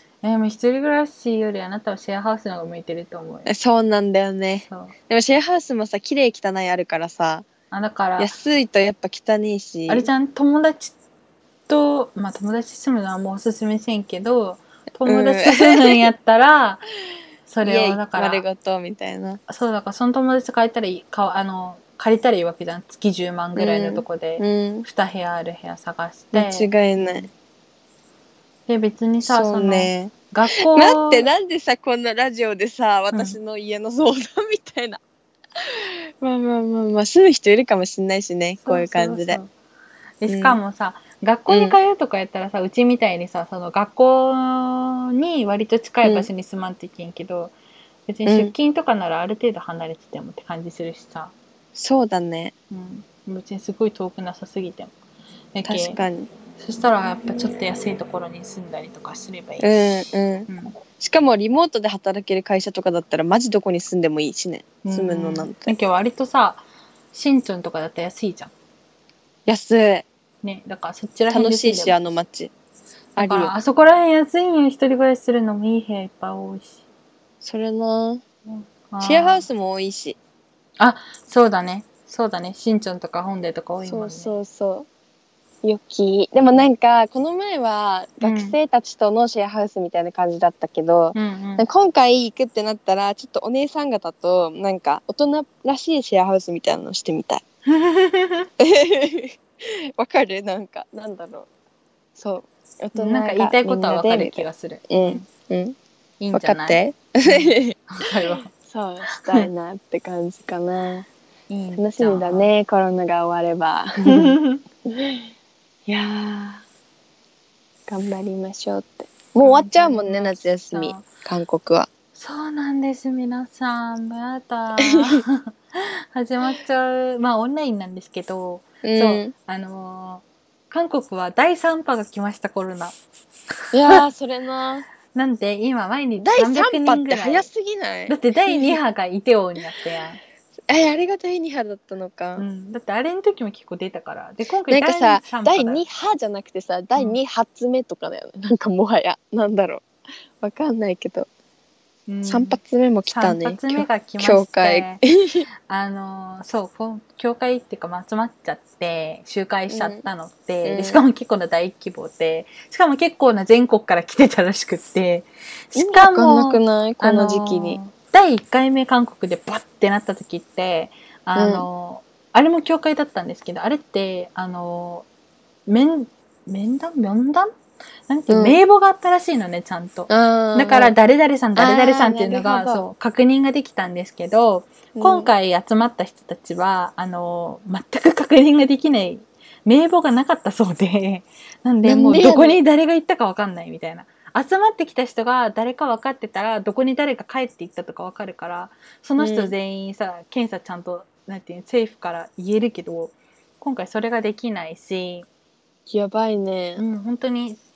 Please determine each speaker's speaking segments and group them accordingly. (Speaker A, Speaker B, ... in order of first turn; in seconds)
Speaker A: 0.2-3.5, 4.7-4.9, 7.7-8.3, 9.9-10.9, 11.7-16.8, 17.5-18.4, 19.5-27.3, 28.7-31.3, 33.1-33.4, 38.6-39.5, 40.2-47.5, 48.1-51.3, 52.7-54.9, 55.5-56.0, 56.6-60.7, 64.8-68.5, 70.4-71.9, 73.2-76.8, 78.5-79.5, 80.8-84.3, 88.2-88.6, 91.1-91.6, 97.7-98.5, 102.9-105.3, 106.2-108.5, 109.1-109.5, 111.5-112.5, 114.0-114.6, 119.4-121.0, 122.1-132.9, 135.1-137.5, 138.1-140.2, 142.4-145.8, 152.1-155.0, 155.7-175.1, 175.7-177.5, 178.1-205.3, 206.8-207.6
Speaker B: 3.5-7.5, 8.2-10.1, 15.1-16.1, 17.6-19.4, 23.6-24.9, 26.3-27.3, 29.2-35.0, 35.6-39.4, 40.3-40.6, 41.5-41.8, 46.0-46.3, 48.2-48.5, 51.7-52.5, 55.6-56.3, 59.6-65.7, 69.5-70.0, 71.3-72.5, 73.2-73.5, 77.4-78.2, 79.0-80.2, 83.8-84.9, 85.6-97.4, 98.6-101.5, 102.1-105.8, 106.3-107.8, 108.5-111.1, 111.7-114.4, 114.9-115.2, 115.9-116.6, 117.9-121.9, 124.9-125.2, 128.8-129.3, 133.7-134.9, 136.2-138.8, 140.7-142.4, 144.7-149.8, 150.4-151.3, 152.2-155.4, 159.7-160.0, 160.6-161.0, 165.7-167.8, 171.3-171.7, 178.3-178.6, 180.1-180.9, 181.6-182.8, 184.9-185.3, 191.8-192.6, 199.2-199.5, 205.9-206.8